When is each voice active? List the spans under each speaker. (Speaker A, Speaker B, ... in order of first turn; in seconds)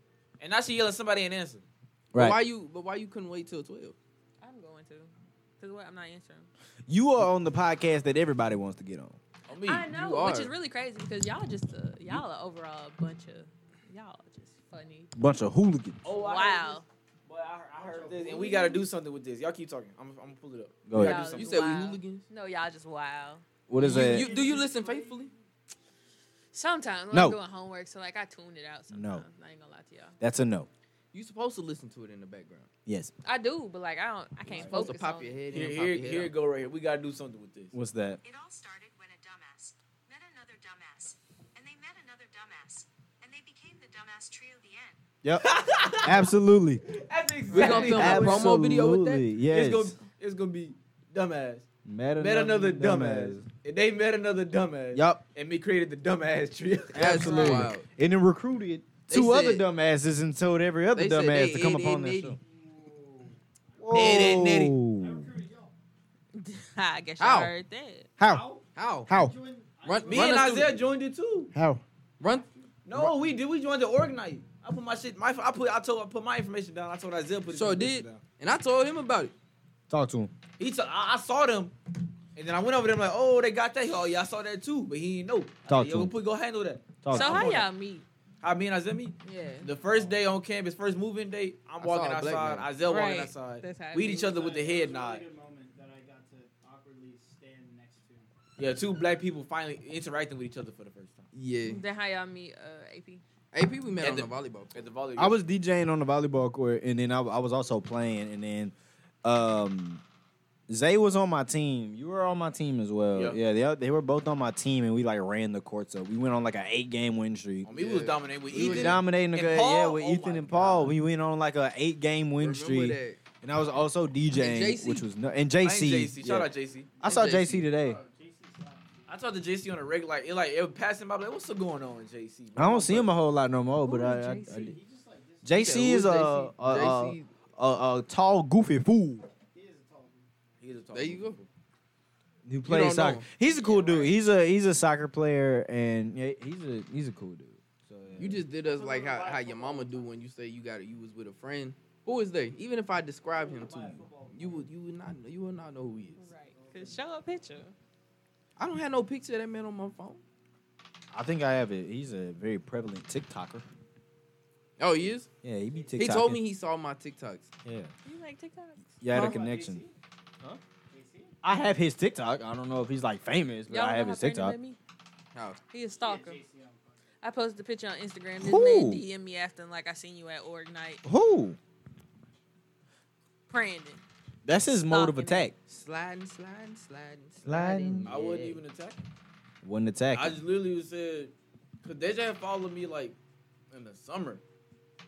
Speaker A: 0.4-1.6, 9.5-9.9, 16.0-21.6, 35.5-37.7, 45.4-46.3, 46.9-48.6, 49.5-51.7, 52.2-57.5, 63.9-64.8, 70.1-71.5, 72.9-78.2, 80.6-81.8, 82.4-87.6, 88.4-95.2, 98.6-101.3, 104.0-105.4, 113.1-113.4, 117.7-121.0, 125.6-126.9, 129.1-133.1, 140.6-141.5, 188.1-189.0, 190.1-193.2, 193.7-194.4
Speaker B: 2.1-2.4, 6.9-9.2, 15.2-16.0, 20.9-21.2, 23.7-24.4, 27.1-27.4, 28.9-29.2, 30.2-30.7, 32.9-33.1, 37.7-38.2, 45.2-46.8, 47.7-50.0, 51.9-53.5, 54.9-55.2, 56.9-62.4, 63.8-65.3, 68.2-68.4, 69.1-69.3, 71.5-71.8, 79.9-80.3, 85.7-86.1, 87.0-87.7, 105.2-110.0, 110.7-117.7, 118.5-126.5, 127.0-128.0, 132.6-134.8, 135.4-139.3, 142.4-148.4, 161.1-163.7, 165.4-166.4, 167.7-167.9, 169.0-169.8, 171.4-174.6, 178.4-179.0, 181.1-181.6, 184.4-185.5, 187.4-188.1, 189.6-190.4
Speaker C: 2.1-4.0, 9.9-10.5, 21.2-22.3, 23.8-25.3, 31.1-32.7, 34.5-36.3, 47.5-49.3, 56.9-57.9, 59.1-59.7, 61.0-62.4, 67.2-67.5, 68.8-69.1, 69.8-70.8, 72.2-72.5, 77.5-79.3, 89.2-89.7, 91.8-92.7, 101.3-101.8, 103.5-104.9, 117.7-119.0, 122.4-123.2, 124.4-125.1, 127.0-127.7, 135.5-137.3, 140.9-141.4, 142.7-143.3, 148.2-156.3, 158.6-160.2, 164.8-165.3, 166.0-167.5, 175.3-175.6, 185.7-188.6
Speaker D: 4.4-6.5, 9.7-15.1, 16.1-16.9, 20.9-24.1, 26.5-30.1, 33.2-35.4, 47.5-48.1, 66.3-68.1, 87.1-88.1, 89.3-89.7, 92.8-94.3, 101.6-103.2, 133.8-134.7, 143.7-144.1, 156.2-157.7, 168.1-169.0, 173.7-174.8, 175.7-176.4, 177.2-181.0, 183.5-184.0, 184.7-185.5
Speaker E: 17.8-18.8, 23.9-25.3, 62.4-65.7, 68.2-70.7, 72.2-72.7, 94.1-98.3, 127.7-129.1, 134.5-135.9, 139.5-140.3, 143.6-144.1, 148.6-150.2, 153.3-154.7, 156.5-157.0, 165.7-166.3, 169.1-169.9, 170.9-171.3, 176.0-177.0
Speaker F: 38.2-45.0